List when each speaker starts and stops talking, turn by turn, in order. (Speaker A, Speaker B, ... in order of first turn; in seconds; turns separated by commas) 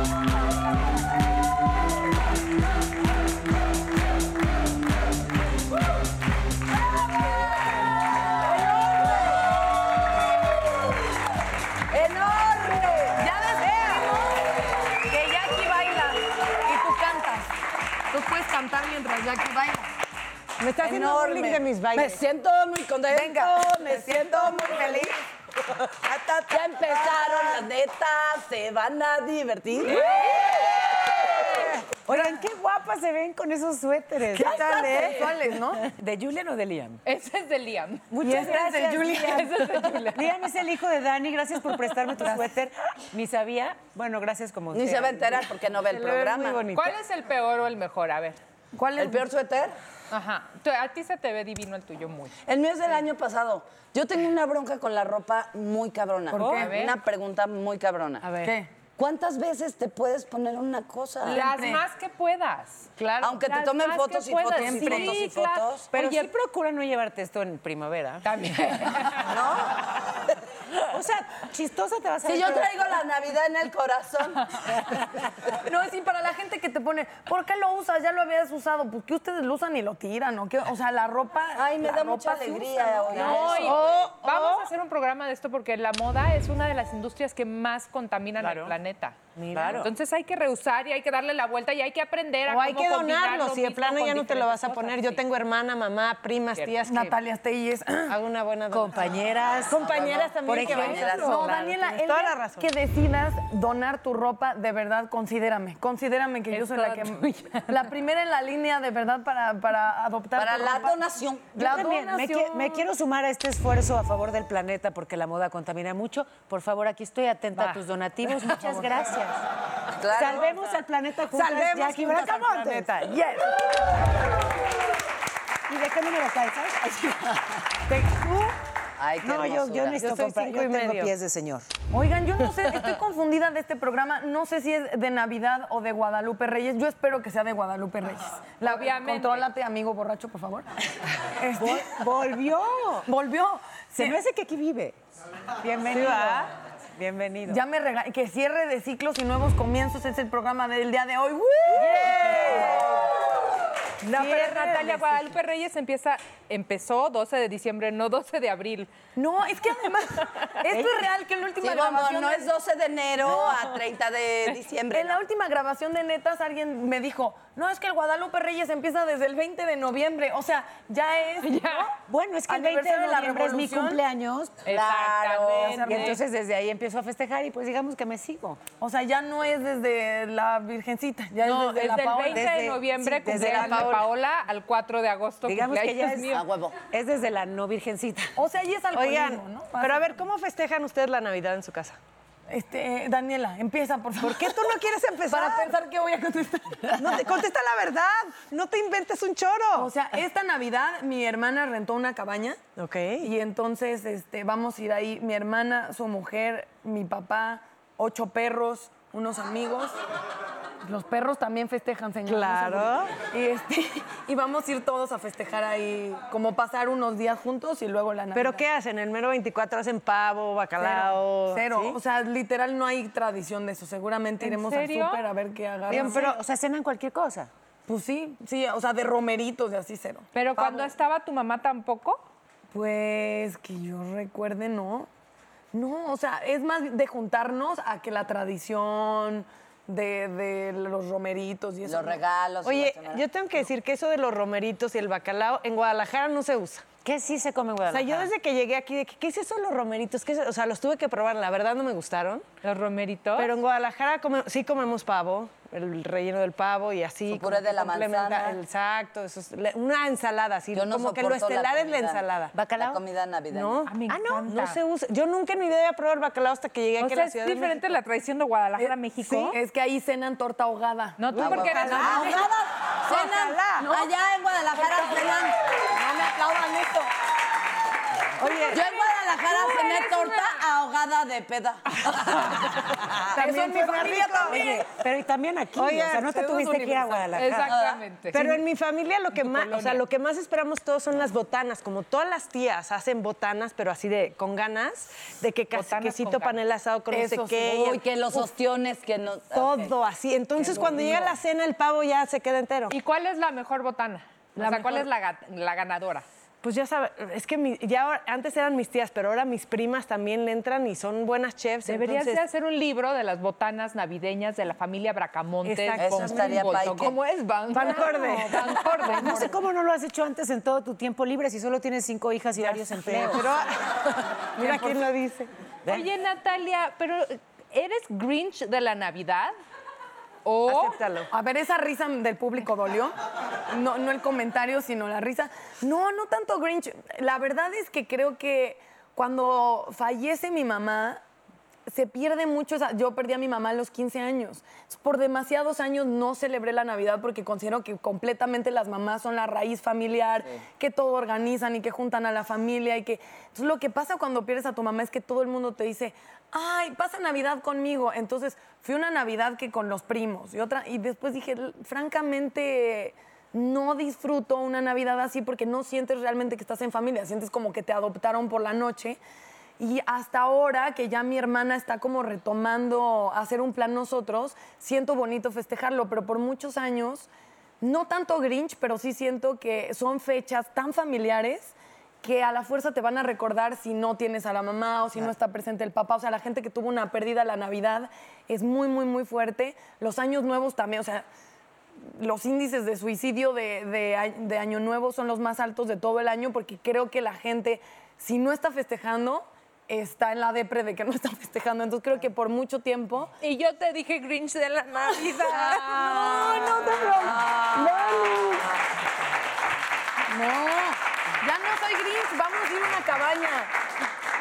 Speaker A: 11.9-13.2, Speaker B: 13.1-14.3, Speaker C: 13.8-14.0, Speaker B: 15.1-17.5, Speaker B: 18.1-19.9, Speaker C: 20.6-22.2, Speaker A: 20.8-25.1, Speaker B: 23.1-25.2, Speaker C: 26.1-27.3, Speaker A: 26.5-31.6, Speaker B: 30.0-30.3, Speaker D: 32.0-37.0, Speaker B: 32.1-32.4, Speaker C: 34.3-35.3, Speaker B: 34.4-35.8, Speaker E: 37.0-38.5, Speaker D: 38.1-45.4, Speaker B: 38.2-39.9, Speaker E: 39.0-40.2, Speaker A: 44.7-46.6, Speaker C: 45.9-47.0, Speaker E: 46.7-48.4, Speaker B: 48.7-49.2, Speaker A: 49.0-49.7, Speaker E: 50.1-52.3, Speaker A: 52.5-58.2, Speaker B: 56.3-56.7, Speaker C: 56.3-56.7, Speaker E: 56.5-57.0, Speaker C: 58.2-58.5, Speaker B: 58.4-58.7, Speaker A: 59.0-61.4, Speaker B: 61.2-61.8, Speaker E: 61.2-62.9, Speaker B: 63.0-63.4, Speaker A: 63.2-65.9, Speaker E: 63.4-66.3, Speaker B: 64.6-65.2, Speaker D: 65.9-68.2, Speaker E: 68.2-69.3, Speaker D: 69.3-69.7, Speaker D: 70.8-73.0, Speaker A: 72.2-74.5, Speaker B: 75.5-84.1, Speaker A: 81.5-83.8, Speaker C: 83.1-84.7, Speaker E: 83.2-89.2, Speaker C: 88.4-88.7, Speaker C: 89.4-89.9, Speaker D: 89.5-89.9, Speaker E: 89.7-95.2, Speaker C: 92.5-97.2, Speaker B: 96.8-98.2, Speaker C: 98.1-102.7, Speaker D: 98.7-99.9, Speaker A: 99.8-101.5, Speaker D: 100.4-101.4, Speaker B: 101.1-111.0, Speaker E: 106.5-107.7, Speaker A: 110.3-111.6, Speaker B: 111.5-112.9, Speaker D: 111.5-119.4, Speaker B: 118.4-118.9, Speaker A: 120.0-120.7, Speaker D: 120.0-123.1, Speaker C: 121.3-122.9, Speaker B: 123.1-123.5, Speaker D: 125.7-127.4, Speaker C: 127.9-128.5, Speaker A: 129.0-130.0, Speaker D: 129.2-131.7, Speaker C: 129.9-131.1, Speaker B: 131.9-140.7, Speaker E: 138.6-139.5, Speaker B: 141.3-142.0, Speaker D: 141.5-143.1, Speaker B: 143.1-144.2, Speaker D: 143.9-144.9, Speaker D: 145.6-147.6, Speaker C: 145.9-146.5, Speaker B: 147.5-152.8, Speaker D: 151.7-153.0, Speaker C: 151.9-152.8, Speaker E: 154.0-158.9, Speaker D: 154.2-155.0, Speaker C: 154.2-154.9, Speaker B: 159.2-162.5, Speaker D: 160.7-161.0, Speaker A: 161.6-165.2, Speaker B: 163.3-163.5, Speaker B: 164.9-171.9, Speaker E: 171.4-171.9, Speaker D: 172.1-174.6, Speaker B: 172.5-174.0, Speaker E: 174.6-176.2, Speaker A: 174.7-176.0, Speaker B: 175.6-176.2, Speaker D: 175.8-178.6, Speaker B: 178.8-182.7, Speaker E: 181.4-186.4, Speaker D: 182.3-184.0, Speaker B: 183.2-184.0, Speaker D: 185.4-188.3, Speaker A: 186.3-186.8, Speaker B: 188.3-190.1, Speaker C: 188.9-192.0, Speaker B: 192.5-194.7, Speaker C: 194.2-195.8, Speaker B: 195.3-197.3, Speaker C: 197.0-199.9, Speaker B: 199.8-202.6, Speaker C: 202.8-203.3, Speaker B: 203.2-209.9, Speaker B: 210.8-218.6, Speaker C: 212.2-213.2, Speaker C: 218.3-222.0, Speaker B: 220.8-226.3, Speaker E: 224.4-225.2, Speaker D: 225.9-227.5, Speaker C: 225.9-226.4, Speaker B: 227.9-230.9, Speaker E: 230.3-232.2, Speaker B: 232.7-235.1, Speaker B: 235.7-242.2, Speaker A: 241.8-243.2, Speaker C: 242.6-246.8, Speaker D: 247.0-248.3, Speaker C: 247.9-252.4, Speaker E: 252.6-253.5, Speaker C: 253.3-262.5, Speaker A: 257.3-258.6, Speaker A: 260.7-263.9, Speaker D: 262.5-263.0, Speaker C: 263.5-267.8, Speaker E: 263.9-264.8, Speaker E: 267.0-269.6, Speaker B: 269.5-271.5, Speaker E: 271.2-272.4, Speaker A: 271.3-275.5, Speaker C: 271.4-272.5, Speaker C: 273.1-273.9, Speaker B: 273.8-274.1, Speaker B: 274.7-275.3, Speaker B: 275.8-277.1, Speaker C: 278.4-278.8, Speaker B: 278.5-278.8, Speaker A: 278.7-283.4, Speaker B: 279.6-280.3, Speaker B: 283.3-284.8, Speaker D: 283.4-287.8, Speaker C: 283.4-284.6, Speaker C: 285.8-286.3, Speaker B: 286.2-287.3, Speaker E: 287.3-288.5, Speaker A: 287.6-288.0, Speaker C: 288.3-298.0, Speaker D: 288.3-288.6, Speaker E: 289.4-290.0, Speaker E: 295.7-296.6, Speaker B: 297.1-297.8, Speaker A: 297.6-299.9, Speaker C: 299.5-302.9, Speaker B: 300.6-301.3, Speaker E: 302.9-306.2, Speaker C: 304.6-305.1, Speaker C: 306.6-312.4, Speaker E: 311.8-319.6, Speaker C: 315.6-316.8, Speaker A: 316.0-317.1, Speaker C: 317.7-319.3, Speaker B: 318.7-319.1, Speaker D: 319.2-323.4, Speaker C: 322.6-325.5, Speaker B: 324.6-325.0, Speaker E: 325.9-329.5, Speaker E: 330.4-331.0, Speaker C: 330.7-331.3, Speaker B: 331.3-333.1, Speaker B: 333.7-341.2, Speaker B: 341.9-369.2, Speaker B: 369.8-377.3, Speaker B: 377.8-391.2, Speaker B: 392.1-403.3, Speaker E: 403.4-407.1, Speaker B: 405.3-408.7, Speaker A: 407.1-408.7, Speaker B: 410.3-413.7